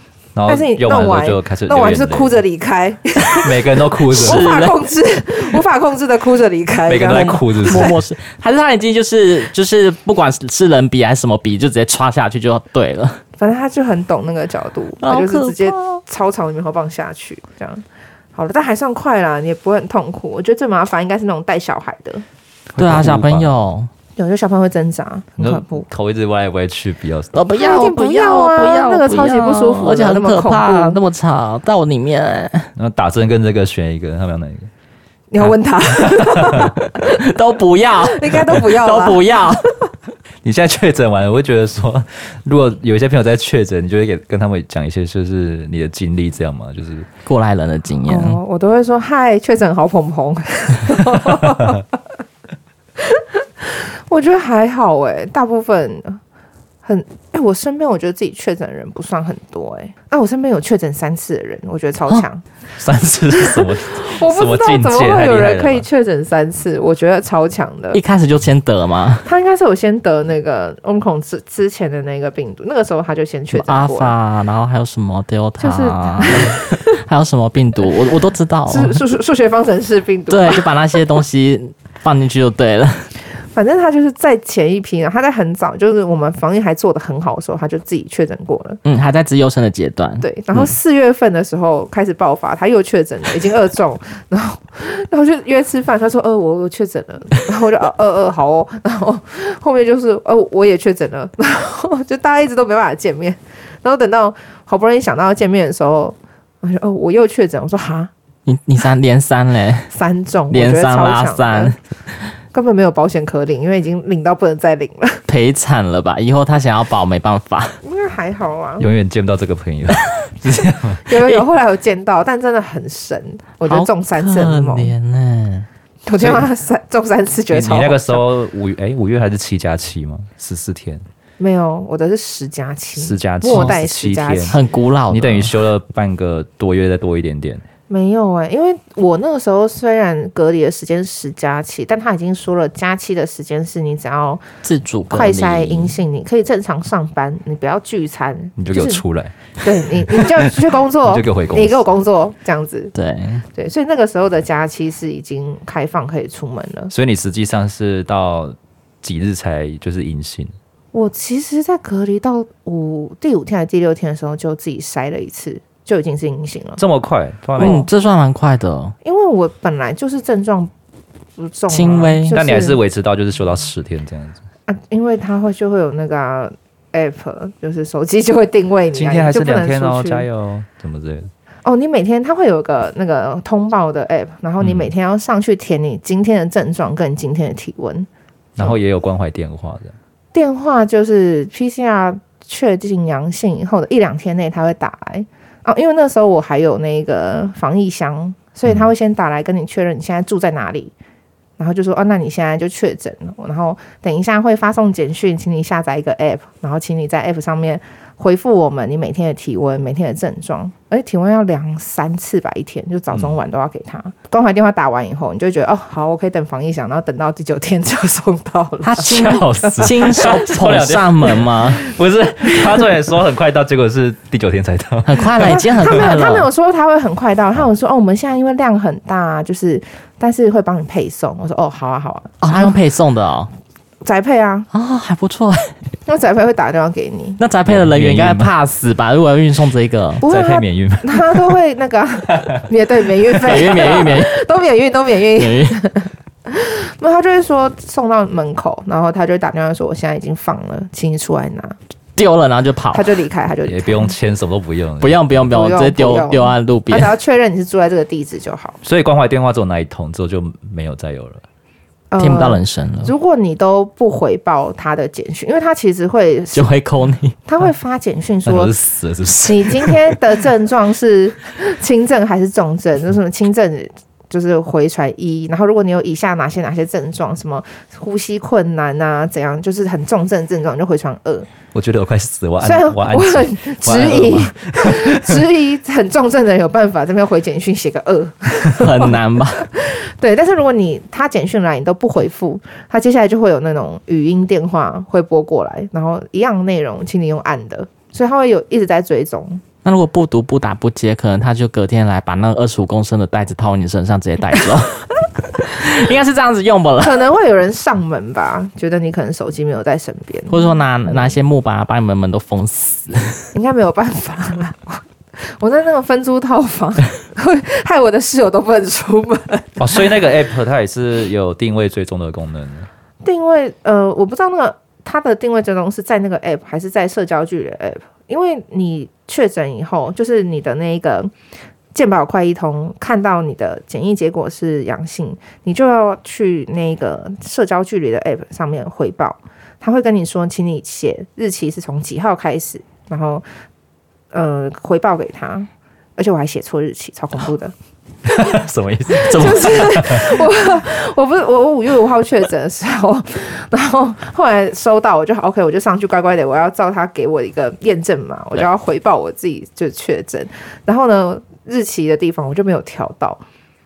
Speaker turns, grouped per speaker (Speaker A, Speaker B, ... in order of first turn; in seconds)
Speaker A: 0.3-2.4, 3.3-4.6, 6.9-8.0, 22.7-23.5, 25.4-27.4, 32.8-34.7, 36.1-36.7, 40.4-47.1, 62.8-65.8, 118.8-121.0, 126.2-126.4, 127.5-131.0, 132.9-134.6, 135.1-137.6, 148.6-149.3, 150.0-151.8, 156.9-160.5, 166.8-167.8, 172.3-174.4, 178.9-181.3, 184.6-184.9, 188.6-189.9, 219.0-226.0, 237.7-238.5, 240.3-241.6, 253.6-255.4, 258.8-261.4, 268.4-270.2, 281.7-285.4, 319.8-322.9, 348.2-350.5
Speaker B: 0.5-8.0, 13.4-22.2, 24.1-25.9, 27.5-31.0, 35.3-37.3, 38.0-39.7, 48.0-51.9, 53.0-56.2, 56.8-62.4, 63.3-68.0, 69.2-74.1, 75.6-76.8, 78.7-81.0, 83.5-88.8, 90.2-108.1, 109.9-111.8, 112.5-115.2, 117.8-118.9, 121.1-124.9, 126.0-128.2, 131.4-134.6, 137.9-144.4, 145.1-149.0, 149.6-152.9, 153.5-156.9, 160.9-166.8, 167.6-167.9, 169.0-170.7, 171.4-172.8, 174.7-180.2, 181.6-188.8, 190.3-200.9, 201.6-220.4, 225.4-232.8, 234.0-234.7, 236.1-237.4, 240.2-251.8, 252.9-254.1, 255.4-258.8, 262.1-266.7, 267.4-268.7, 269.3-281.5, 282.6-299.6, 307.0-311.3, 313.5-320.0, 323.2-331.3, 331.9-343.4, 344.3-347.7, 349.1-363.4
Speaker C: 4.1-4.8, 7.1-13.2, 15.0-16.0, 22.8-23.9, 27.3-32.7, 36.8-39.7, 47.2-48.4, 67.9-69.3, 73.5-79.0, 80.3-83.1, 88.8-90.2, 108.5-109.9, 110.5-111.8, 115.3-117.8, 123.6-125.7, 133.5-133.7, 134.5-135.5, 144.6-146.0, 152.9-153.4, 167.6-168.9, 171.7-172.4, 218.8-221.8, 225.1-226.5, 232.4-233.5, 234.7-235.7, 237.4-240.2, 243.4-244.3, 245.4-245.8, 252.2-253.1, 255.0-257.1, 262.2-263.1, 266.5-267.3, 288.7-289.6, 299.8-307.2, 310.5-313.5, 349.3-349.8